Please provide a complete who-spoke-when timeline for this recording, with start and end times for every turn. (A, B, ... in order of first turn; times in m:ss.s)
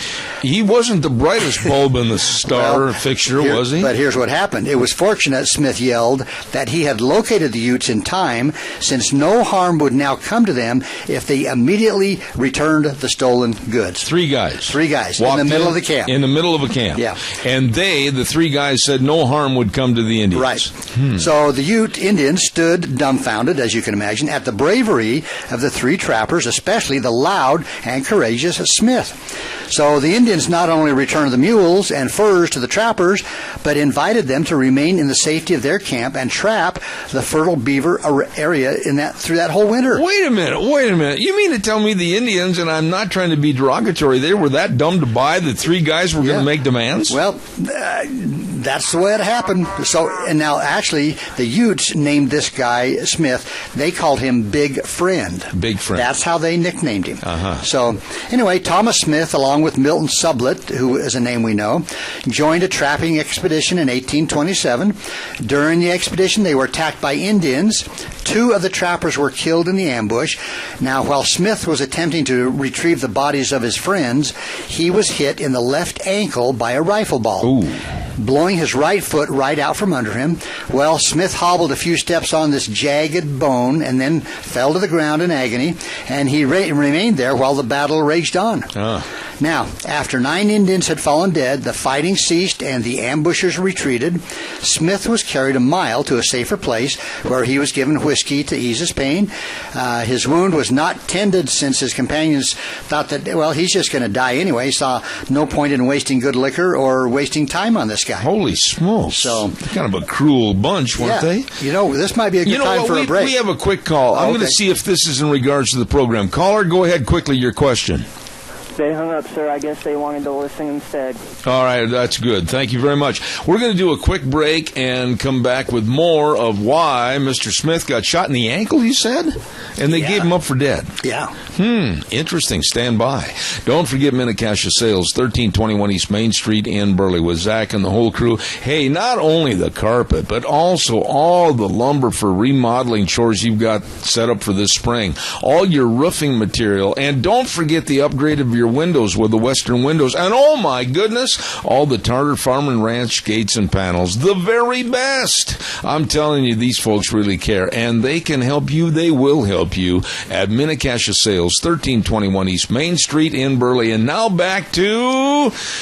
0:00.4-0:03.9 A
0:02.5-0:14.1 B
0:14.0-0:21.1 A
0:14.6-0:16.2 B
0:17.0-0:17.2 B
0:20.3-0:29.2 B
0:29.7-0:40.0 B
0:39.9-0:47.2 A
0:46.2-0:46.5 B
0:47.1-1:17.5 B
0:55.6-0:56.0 A
0:57.2-0:57.6 A
1:17.4-1:17.8 A
1:18.2-1:28.7 B
1:28.8-1:29.0 A
1:29.4-1:48.3 B
1:48.2-1:51.5 A
1:49.1-1:49.6 B
1:51.0-1:53.4 B
1:52.4-1:58.0 A
1:54.1-1:54.6 B
1:58.8-2:01.2 C
2:01.4-2:10.9 A
2:09.9-2:10.3 B
2:11.0-2:11.4 B
2:11.5-2:45.6 A